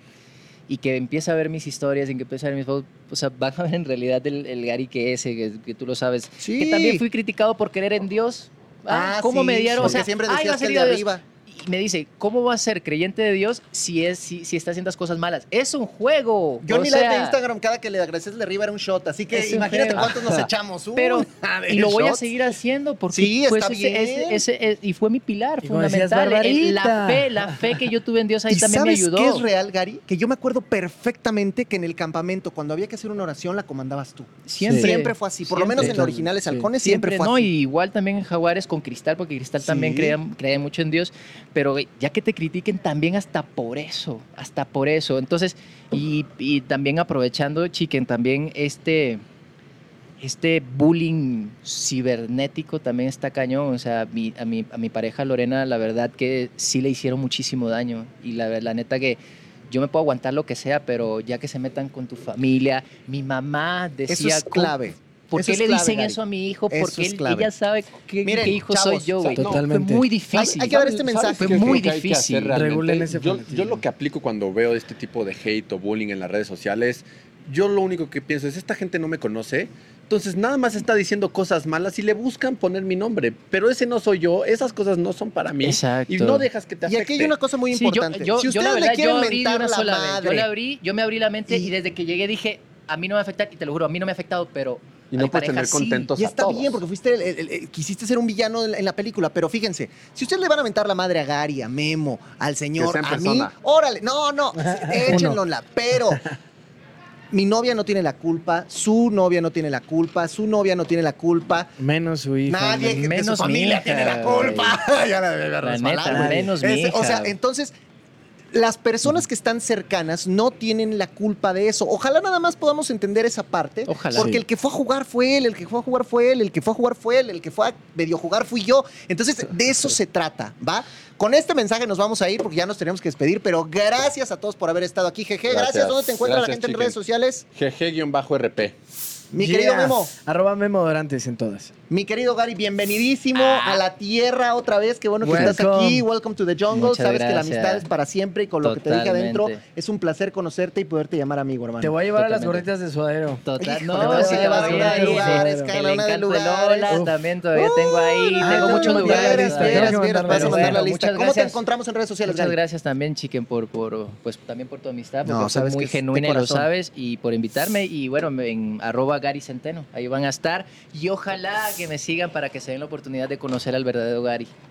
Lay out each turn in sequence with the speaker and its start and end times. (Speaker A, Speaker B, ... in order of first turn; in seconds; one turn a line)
Speaker A: 0.7-17.4
Speaker B: 6.4-7.0
Speaker B: 8.9-11.2
Speaker B: 16.6-22.3
Speaker A: 19.3-29.4
Speaker B: 23.1-24.4
Speaker C: 25.6-27.9
Speaker B: 28.5-37.5
Speaker A: 34.5-36.2
Speaker C: 34.6-34.9
Speaker C: 35.7-36.7
Speaker A: 36.8-49.2
Speaker B: 39.6-40.2
Speaker A: 50.2-64.8
Speaker B: 64.1-66.2
Speaker A: 65.3-70.8
Speaker B: 66.7-67.5
Speaker B: 68.2-69.2
Speaker D: 69.2-69.6
Speaker C: 69.3-70.1
Speaker B: 70.3-71.8
Speaker D: 70.7-87.3
Speaker A: 71.4-72.5
Speaker C: 72.5-73.8
Speaker A: 85.6-86.5
Speaker B: 86.8-90.5
Speaker A: 87.7-96.1
Speaker D: 95.1-96.8
Speaker B: 96.2-106.2
Speaker D: 102.8-103.5
Speaker C: 104.6-105.4
Speaker B: 107.3-111.7
Speaker C: 111.8-113.1
Speaker B: 112.5-117.7
Speaker A: 112.9-114.8
Speaker A: 115.6-117.3
Speaker C: 116.1-116.5
Speaker B: 118.5-137.4
Speaker A: 123.9-124.4
Speaker D: 135.5-136.9
Speaker D: 137.5-138.8
Speaker B: 139.3-140.1
Speaker C: 139.3-141.7
Speaker B: 141.9-152.0
Speaker A: 143.3-143.8
Speaker C: 145.2-146.1
Speaker A: 146.7-147.8
Speaker A: 148.6-149.6
Speaker C: 151.8-155.8
Speaker A: 152.2-152.6
Speaker A: 153.4-161.6
Speaker B: 153.6-157.0
Speaker C: 156.9-157.8
Speaker B: 157.6-162.6
Speaker C: 158.3-160.8
Speaker A: 162.2-174.5
Speaker B: 165.2-166.7